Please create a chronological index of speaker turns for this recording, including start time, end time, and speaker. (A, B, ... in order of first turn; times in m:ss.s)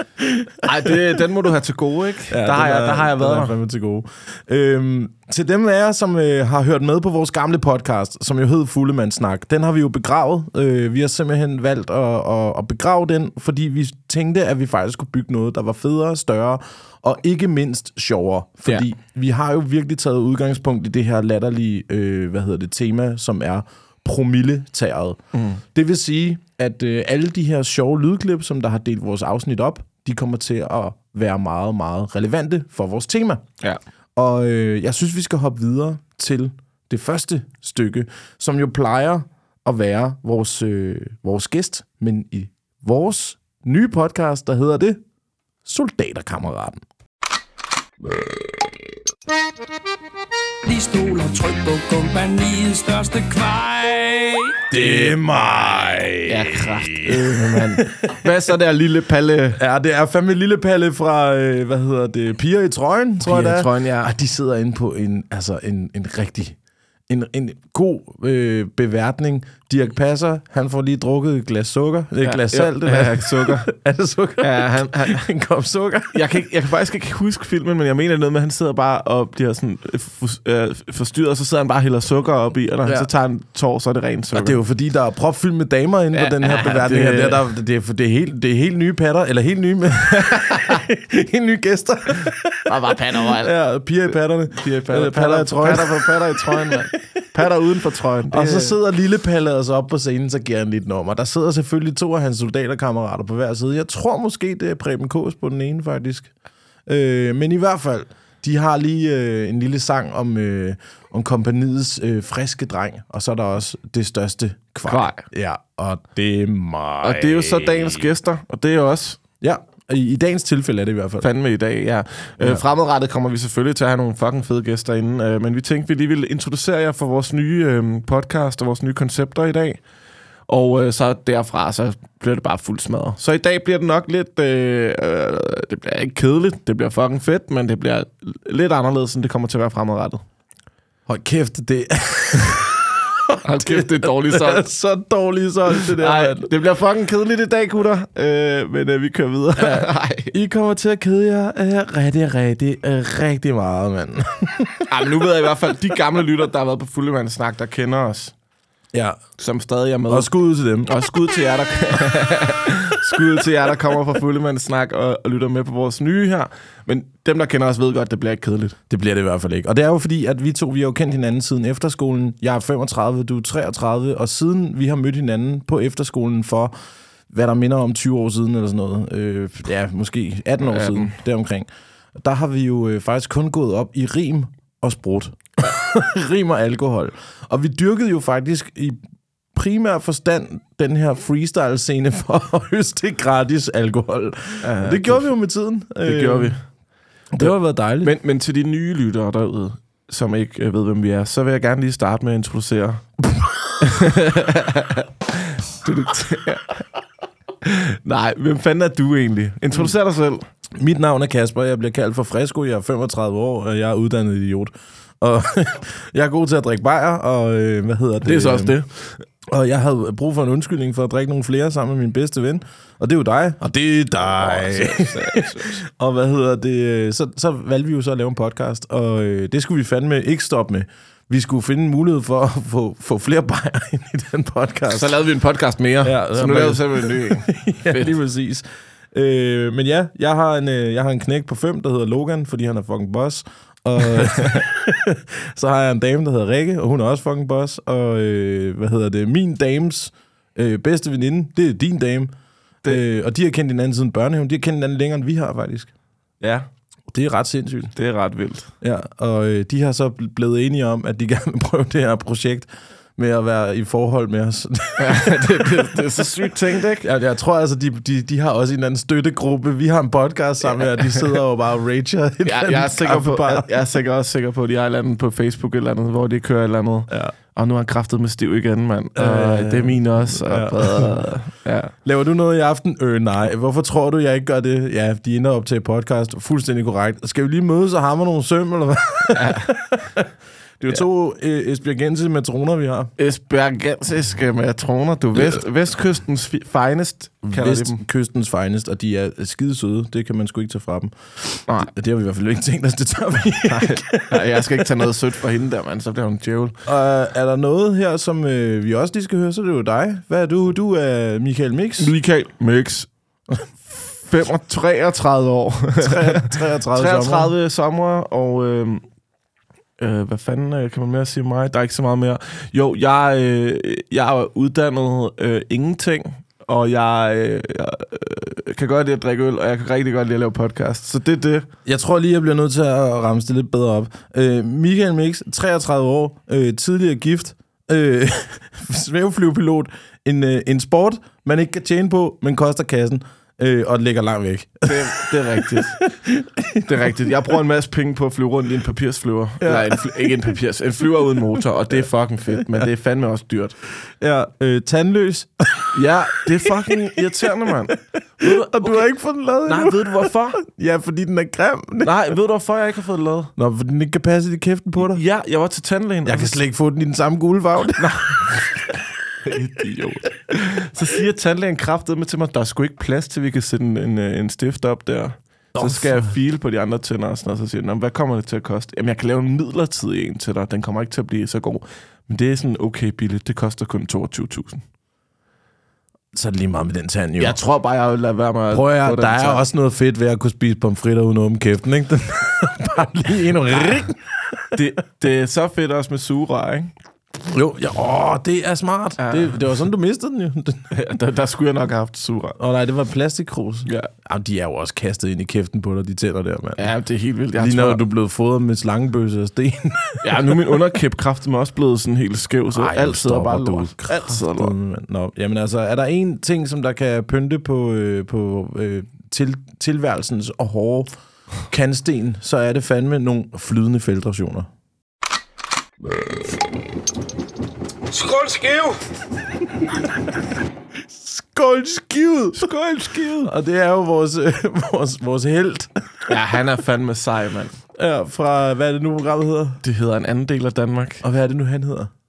0:00.6-0:03.5 A
0:02.3-0:25.2 B
0:25.3-0:25.6 A
0:25.7-0:33.4 B
0:34.1-0:45.0 B
0:45.6-0:46.8 B
0:50.6-0:54.6 C
0:54.7-0:58.1 B
0:54.7-0:55.2 A
0:56.2-0:59.6 A
0:59.6-1:06.6 B
1:03.2-1:04.1 A
1:07.1-1:16.2 B
1:12.2-1:13.6 A
1:14.4-1:15.2 A
1:16.1-1:24.6 A
1:24.3-1:32.7 B
1:26.1-1:27.5 A
1:32.6-1:33.5 A
1:33.2-1:37.0 B
1:34.1-1:38.8 A
1:38.3-1:46.3 B
1:46.8-1:58.1 B
1:54.8-1:55.2 A
1:57.0-1:59.2 A
1:59.4-2:01.3 B
2:01.2-2:09.8 A
2:10.5-2:20.2 A
2:21.1-2:26.5 B
2:23.4-2:24.6 A
2:25.7-2:30.3 A
2:29.6-2:34.9 B
2:34.9-2:38.3 A
2:38.9-2:39.2 B
2:39.4-2:40.3 A
2:40.1-2:40.9 B
2:40.8-2:48.8 A
2:48.9-2:56.7 B
2:57.3-3:01.7 B
3:00.6-3:01.2 A
3:02.2-3:09.0 B
3:09.5-3:16.6 B
3:14.6-3:15.3 A
3:16.0-3:16.6 A
3:17.3-3:18.1 B
3:17.4-3:23.1 A
3:23.8-3:26.8 A
3:27.6-3:30.4 A
3:30.8-3:38.8 B
3:38.2-3:39.2 A
3:39.5-3:55.2 B
3:44.2-3:45.8 A
3:54.9-3:58.1 A
3:56.0-4:12.3 B
4:04.2-4:04.6 A
4:12.8-4:15.9 B
4:16.4-4:16.7 A
4:17.1-4:17.9 B
4:18.0-4:18.7 A
4:18.8-4:26.0 B
4:25.0-4:27.1 A
4:27.0-4:33.7 B
4:30.9-4:31.3 A
4:32.4-4:41.9 A
4:37.1-4:37.3 B
4:39.2-4:41.2 B
4:42.0-4:50.3 B
4:49.3-4:49.7 A
4:50.8-4:53.1 B
4:53.2-4:58.0 A
4:57.5-5:05.0 B
5:03.6-5:06.8 A
5:06.8-5:12.1 B
5:12.0-5:13.1 A
5:13.9-5:19.0 A
5:16.0-5:17.5 B
5:20.0-5:31.7 A
5:31.8-5:46.8 B
5:44.8-5:46.0 A
5:46.8-5:53.8 A
5:49.6-5:50.5 B
5:54.2-5:56.0 B
5:55.9-5:59.1 A
5:56.6-5:56.9 B
5:58.4-6:02.3 B
5:59.6-6:00.6 A
6:02.0-6:03.5 A
6:03.6-6:05.2 B
6:05.0-6:06.6 A
6:06.2-6:08.8 B
6:08.0-6:08.7 A
6:09.4-6:24.8 A
6:15.8-6:16.4 B
6:26.3-6:27.6 B
6:27.4-6:29.6 A
6:28.7-6:34.7 B
6:34.7-6:36.9 A
6:37.4-6:40.9 B
6:39.2-6:39.6 A
6:40.9-6:42.6 A
6:42.6-6:46.9 B
6:46.8-6:48.0 A
6:47.5-6:50.6 B
6:50.2-6:54.7 A
6:52.7-7:01.1 B
7:01.7-7:04.7 B
7:11.1-7:12.7 B
7:12.5-7:13.5 A
7:13.4-7:16.3 B
7:16.3-7:17.8 A
7:18.0-7:19.8 B
7:19.8-7:21.2 A
7:21.2-7:22.1 B